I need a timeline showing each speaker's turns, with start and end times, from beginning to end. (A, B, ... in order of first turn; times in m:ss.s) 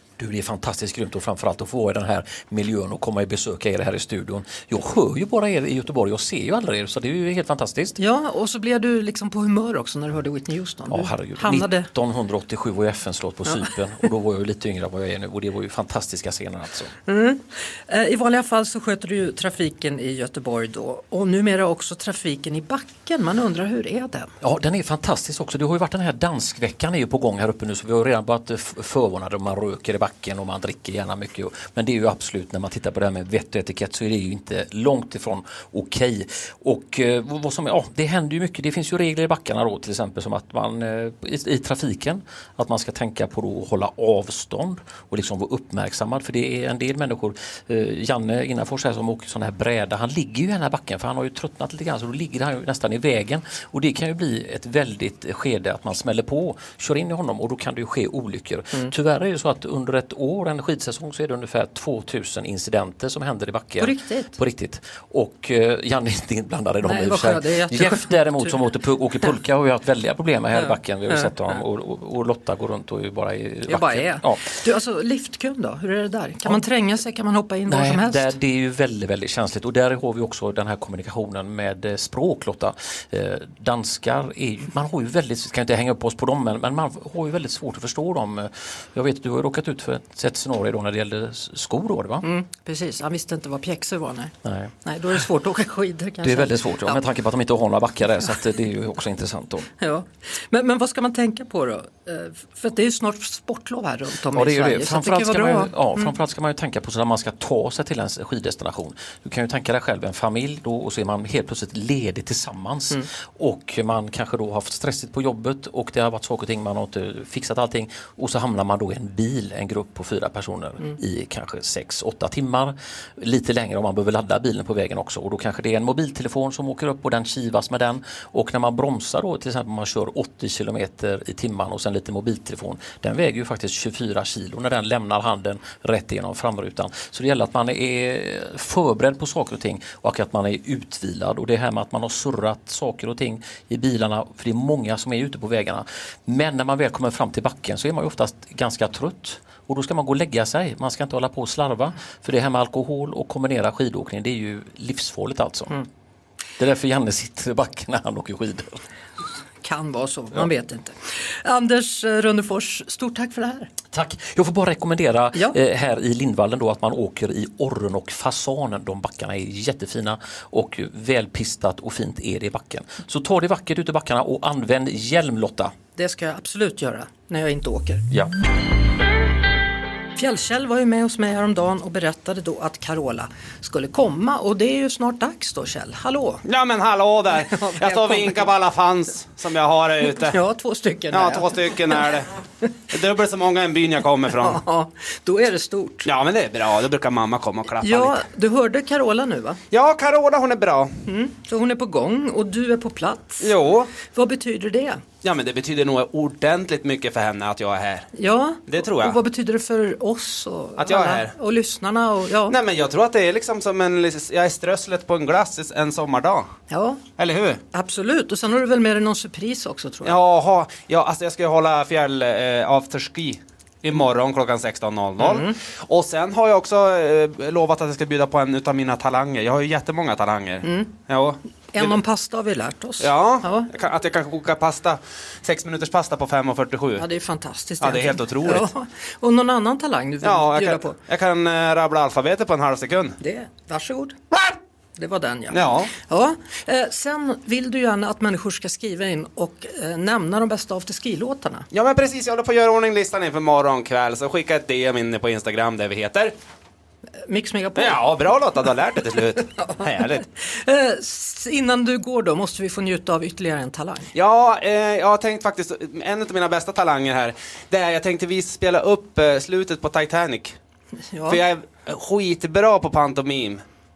0:00.2-0:08.0 A
0:08.0-0:11.9 B
0:10.9-0:16.9 A
0:17.0-0:24.3 B
0:24.4-1:14.5 A
1:03.8-1:04.4 B
1:06.8-1:08.6 B
1:10.5-1:11.3 B
1:13.7-1:18.3 B
1:17.7-1:32.2 A
1:32.2-1:37.0 B
1:34.4-1:34.7 A
1:36.2-1:39.7 A
1:39.8-1:46.1 B
1:44.3-2:35.8 A
2:36.6-2:38.8 A
2:39.6-2:43.7 B
2:43.9-2:55.7 A
2:56.0-2:58.0 B
3:00.1-3:06.4 B
3:06.4-3:10.3 C
3:07.3-3:08.5 B
3:10.0-3:12.2 B
3:11.1-3:12.3 C
3:12.9-3:14.6 C
3:14.3-3:16.1 B
3:16.0-3:18.2 C
3:17.7-3:19.6 B
3:19.7-3:21.0 C
3:21.1-3:25.0 B
3:23.4-3:24.0 C
3:25.2-3:28.1 C
3:28.1-3:32.6 B
3:28.6-3:29.2 C
3:30.8-3:31.3 C
3:32.5-3:36.5 C
3:36.7-3:37.0 B
3:37.2-3:37.6 C
3:37.7-3:40.2 B
3:40.0-3:52.0 C
3:45.2-3:45.5 B
3:50.6-3:50.9 B
3:51.7-3:53.7 B
3:53.0-3:57.0 C
3:57.0-4:01.0 B
3:57.8-3:58.7 C
4:00.2-4:03.2 C
4:03.2-4:04.2 B
4:05.0-4:11.6 B
4:05.5-4:05.9 C
4:11.7-4:16.3 C
4:17.2-4:18.1 B
4:17.7-4:20.2 C
4:19.4-4:24.1 B
4:24.1-4:30.6 C
4:31.1-4:31.4 B
4:31.3-4:33.6 C